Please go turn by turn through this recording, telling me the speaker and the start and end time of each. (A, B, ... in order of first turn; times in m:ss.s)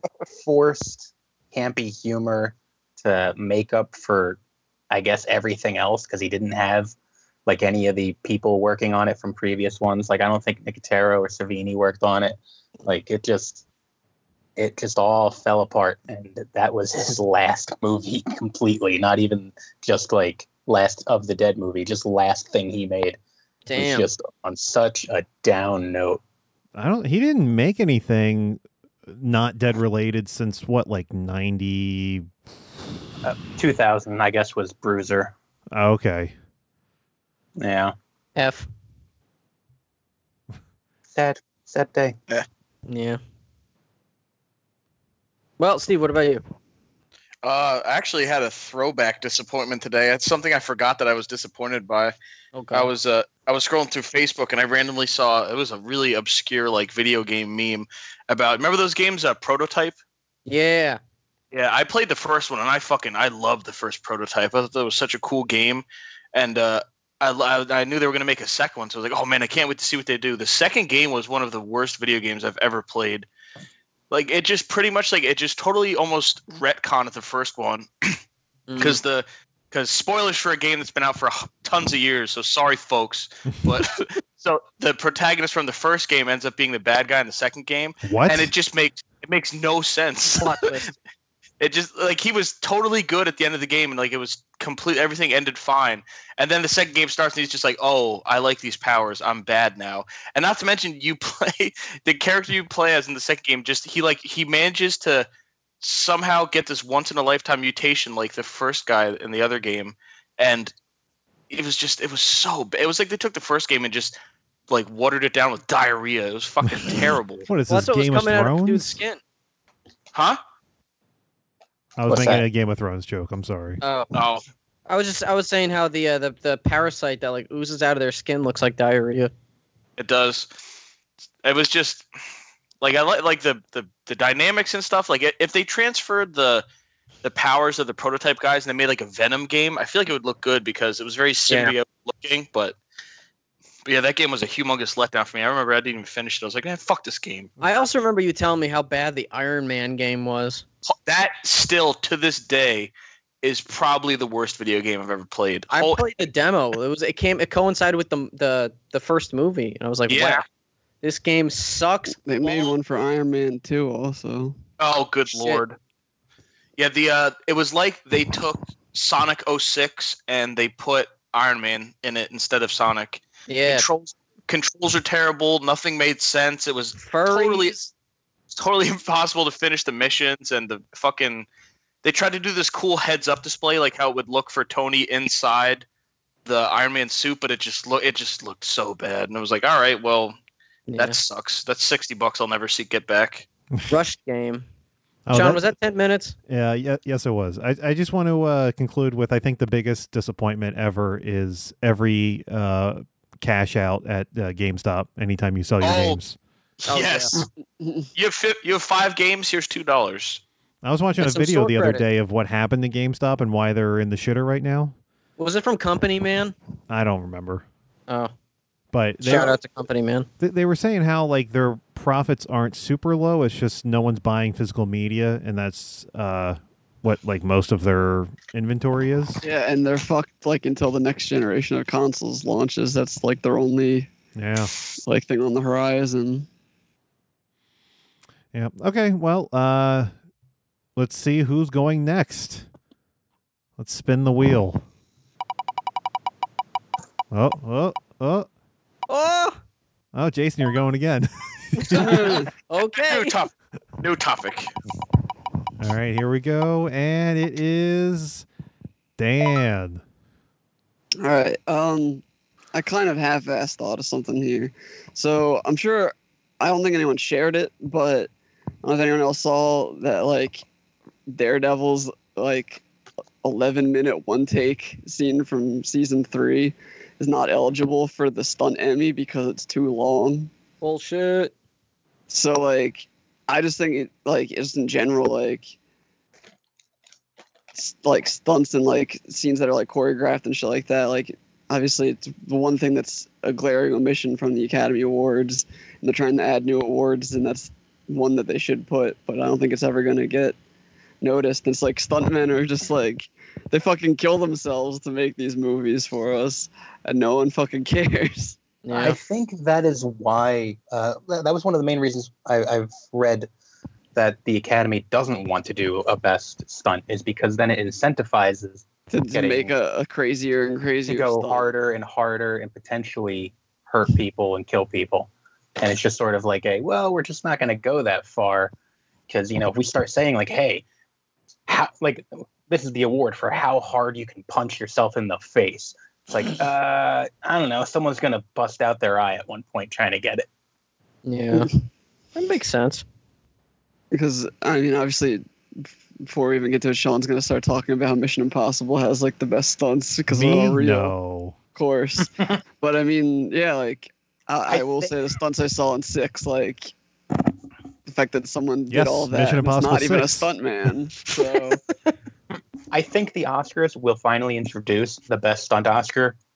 0:00.3-0:04.4 A
0:04.9-0:07.0 A
0:07.5-0:13.6 A
0:14.6-0:23.2 A
0:23.7-0:24.1 B
0:23.8-0:26.2 A
0:26.8-0:32.3 C
0:33.2-0:35.3 A
0:35.7-0:36.4 C
0:37.6-0:38.0 A
0:38.4-0:38.7 B
0:41.1-0:42.2 A
0:42.9-0:43.2 B
0:45.6-0:46.4 B
0:47.4-0:52.2 D
0:52.5-0:52.9 B
0:52.7-1:00.0 D
1:00.5-1:01.0 B
1:01.5-1:13.3 D
1:14.1-1:18.2 D
1:18.7-1:19.0 B
1:18.8-1:30.9 D
1:28.0-1:28.5 C
1:30.3-1:30.9 B
1:31.6-1:45.3 D
1:45.8-1:50.7 D
1:51.5-1:54.2 D
1:54.7-1:57.5 D
1:57.5-1:59.0 C
1:57.7-1:59.2 B
2:00.1-2:00.4 D
2:02.0-2:03.8 C
2:02.1-2:02.4 A
2:03.8-2:04.1 B
2:04.1-2:04.4 D
2:04.9-2:09.3 B
2:10.0-2:10.5 D
2:11.4-2:12.1 D
2:12.8-2:16.7 D
2:17.2-2:22.8 D
2:21.5-2:21.8 B
2:23.8-2:27.5 D
2:27.6-2:30.6 B
2:30.9-2:36.0 D
2:35.7-2:40.4 B
2:40.1-2:40.4 D
2:41.0-2:42.2 B
2:42.3-2:44.6 E
2:42.4-2:42.7 D
2:44.8-2:45.8 D
2:45.3-2:45.6 B
2:46.8-2:57.8 D
2:53.5-2:53.9 B
2:57.0-2:57.9 B
2:58.5-3:01.5 D
3:02.0-3:05.9 D
3:06.4-3:10.4 D
3:10.9-3:11.2 B
3:11.0-3:13.5 D
3:13.9-3:14.7 B
3:15.3-3:15.7 C
3:15.3-3:16.4 B
3:16.5-3:26.4 C
3:25.8-3:26.2 D
3:26.9-3:27.5 D
3:26.9-3:27.4 B
3:27.8-3:28.1 E
3:28.2-3:30.4 D
3:30.8-3:35.0 C
3:31.2-3:32.0 B
3:35.4-3:36.6 B
3:36.9-3:37.7 C
3:38.9-3:39.5 C
3:39.2-3:40.3 B
3:40.4-3:49.4 C
3:49.4-3:54.1 E
3:54.4-3:54.7 C
3:55.0-3:56.5 E
3:58.5-4:00.1 C
4:01.0-4:02.7 C
4:03.8-4:04.8 C
4:07.3-4:08.5 C
4:09.1-4:09.6 B
4:10.1-4:12.2 C
4:11.8-4:13.4 B
4:12.0-4:12.5 E
4:12.0-4:12.4 D
4:13.0-4:14.7 D
4:15.8-4:18.5 C
4:19.2-4:20.0 C
4:21.2-4:22.2 E
4:22.7-4:28.3 E
4:28.8-4:30.6 E
4:31.3-4:32.8 E
4:33.4-4:40.5 E
4:40.8-4:41.5 B
4:42.3-4:45.8 E
4:47.8-5:00.6 E
5:01.2-5:08.6 E
5:08.8-5:09.2 B
5:08.9-5:13.5 A
5:14.2-5:19.7 A
5:19.1-5:21.7 E
5:21.1-5:28.7 A
5:29.3-5:30.8 A
5:31.7-5:40.5 A
5:41.3-5:41.7 B
5:42.4-5:43.0 B
5:44.1-5:51.2 E
5:50.3-5:51.6 C
5:51.8-5:56.9 E
5:54.7-5:55.2 A
5:58.1-6:01.8 E
5:58.9-6:00.5 C
6:02.9-6:06.4 A